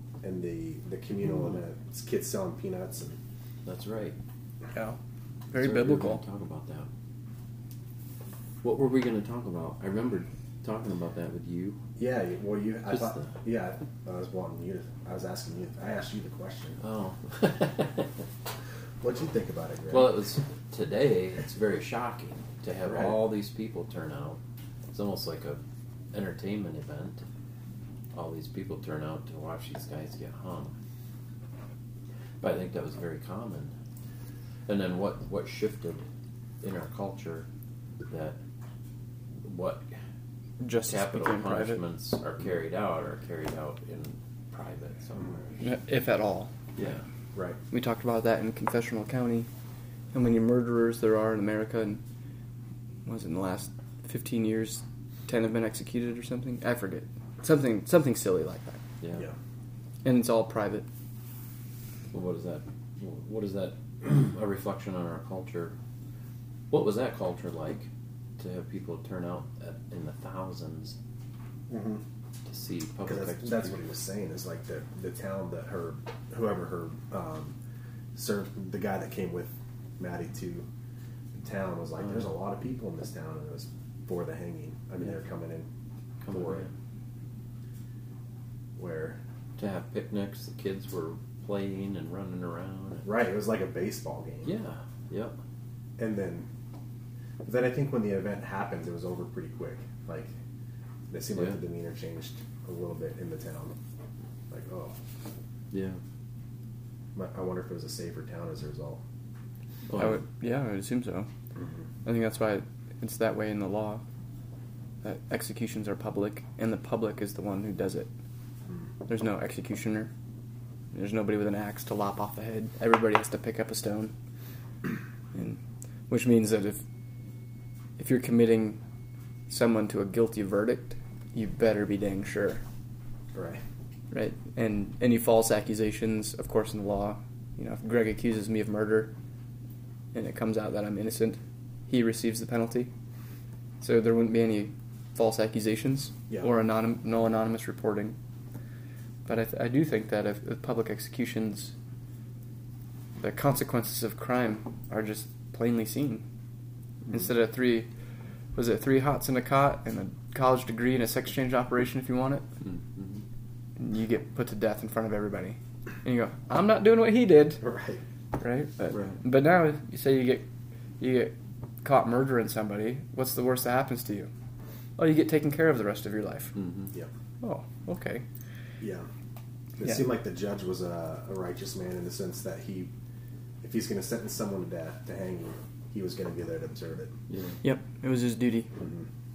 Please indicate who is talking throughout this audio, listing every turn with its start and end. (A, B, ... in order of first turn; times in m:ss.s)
0:00.2-0:03.2 A
0:03.6-0:04.2 B
0:05.5-0:06.2 C
0:05.6-0:06.9 B
0:08.6-0:11.8 B
0:12.0-0:16.8 A
0:12.9-0:13.3 B
0:16.8-0:18.1 B
0:19.0-0:20.2 A
0:19.9-0:24.4 B
0:22.8-0:23.2 A
0:24.9-0:27.2 B
0:28.1-0:30.7 B
0:32.4-0:33.7 B
0:34.6-0:36.0 B
0:36.6-0:37.5 B
0:38.0-0:38.4 B
0:39.4-0:39.9 B
0:40.6-0:41.8 C
0:40.8-0:45.4 B
0:45.6-0:46.5 C
0:46.8-0:47.0 B
0:47.3-0:47.6 A
0:47.7-0:49.5 C
0:50.1-0:52.0 C
0:53.0-0:58.8 C
0:59.0-0:59.2 B
1:00.0-1:00.8 C
1:02.1-1:05.7 B
1:06.7-1:11.0 B
1:11.7-1:12.0 A
1:12.4-1:13.8 B
1:13.0-1:17.5 A
1:18.1-1:20.6 A
1:21.4-1:25.7 A
1:26.2-1:26.7 B
1:26.3-1:26.7 A
1:28.8-1:29.2 A
1:29.6-1:33.1 B
1:33.0-1:34.5 A
1:34.4-1:35.4 B
1:36.0-1:36.5 A
1:37.4-1:40.3 A
1:41.1-1:43.7 A
1:41.3-1:41.6 B
1:44.5-1:45.0 A
1:45.7-1:46.0 B
1:47.1-1:49.0 A
1:49.9-1:50.2 B
1:49.9-1:51.3 C
1:51.6-1:51.8 A
1:52.0-1:54.0 C
1:55.0-1:58.1 C
1:59.1-2:00.1 C
2:00.9-2:04.1 C
2:05.3-2:06.8 C
2:08.0-2:08.8 C
2:09.5-2:12.6 C
2:13.3-2:13.6 A
2:14.1-2:19.1 C
2:20.1-2:22.9 C
2:23.8-2:28.2 C
2:29.2-2:31.7 C
2:33.2-2:36.2 C
2:37.1-2:37.9 C
2:38.5-2:42.4 C
2:42.6-2:43.2 B
2:43.8-2:47.6 C
2:47.6-2:48.0 A
2:48.4-2:50.4 C
2:48.9-2:49.2 B
2:51.0-2:54.3 C
2:55.0-2:56.5 C
2:56.5-2:56.9 B
2:57.4-2:58.2 C
2:58.8-2:59.1 A
2:59.8-3:02.9 A
3:03.6-3:07.1 A
3:07.3-3:07.6 B
3:07.6-3:08.7 C
3:08.8-3:09.1 A